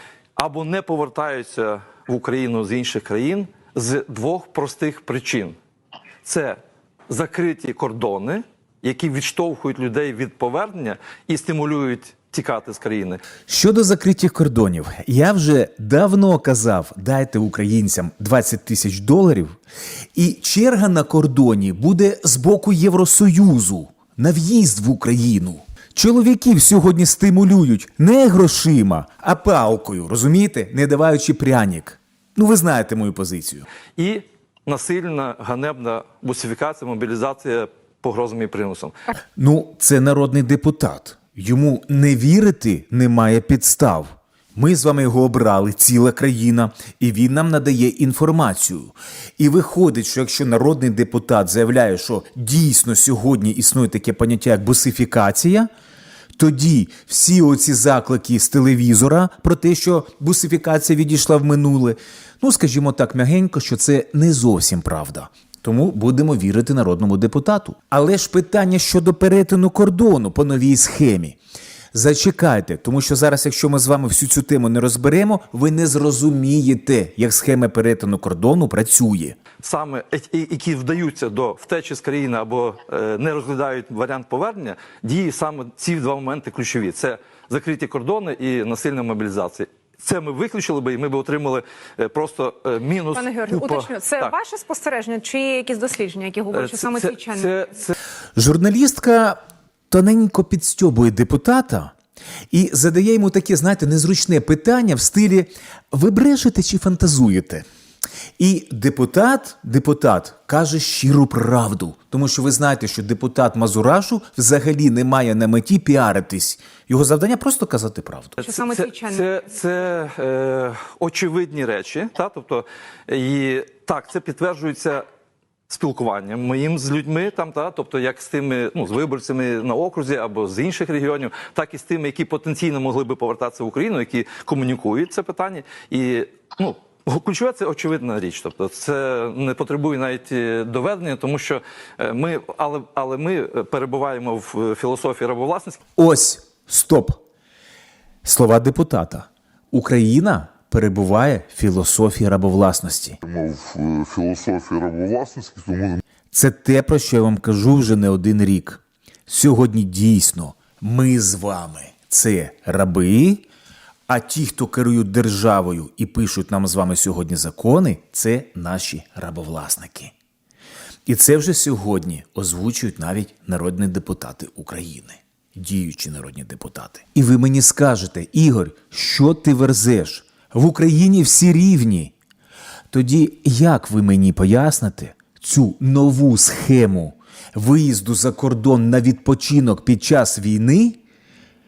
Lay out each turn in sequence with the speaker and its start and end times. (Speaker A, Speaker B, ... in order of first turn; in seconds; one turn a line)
Speaker A: 0.4-5.5
Speaker A: 6.2-13.2
Speaker B: 13.5-19.6
Speaker B: 20.1-33.7
Speaker A: 34.0-38.9
Speaker B: 39.4-55.7
Speaker B: 56.4-71.4
Speaker B: 71.9-79.4
Speaker A: 79.6-94.3
Speaker C: 93.1-97.5
Speaker A: 96.5-97.9
Speaker B: 98.3-99.4
Speaker B: 99.9-101.9
Speaker B: 102.5-107.7
Speaker B: 108.4-118.4
Speaker A: 118.4-125.0
Speaker C: 118.4-119.2
Speaker A: 125.7-145.8
Speaker B: 146.0-147.2
Speaker B: 148.2-153.2
Speaker D: 153.2-156.0
Speaker B: 156.3-163.4
Speaker B: 164.1-170.1
Speaker B: 171.1-182.1
Speaker B: 182.9-191.0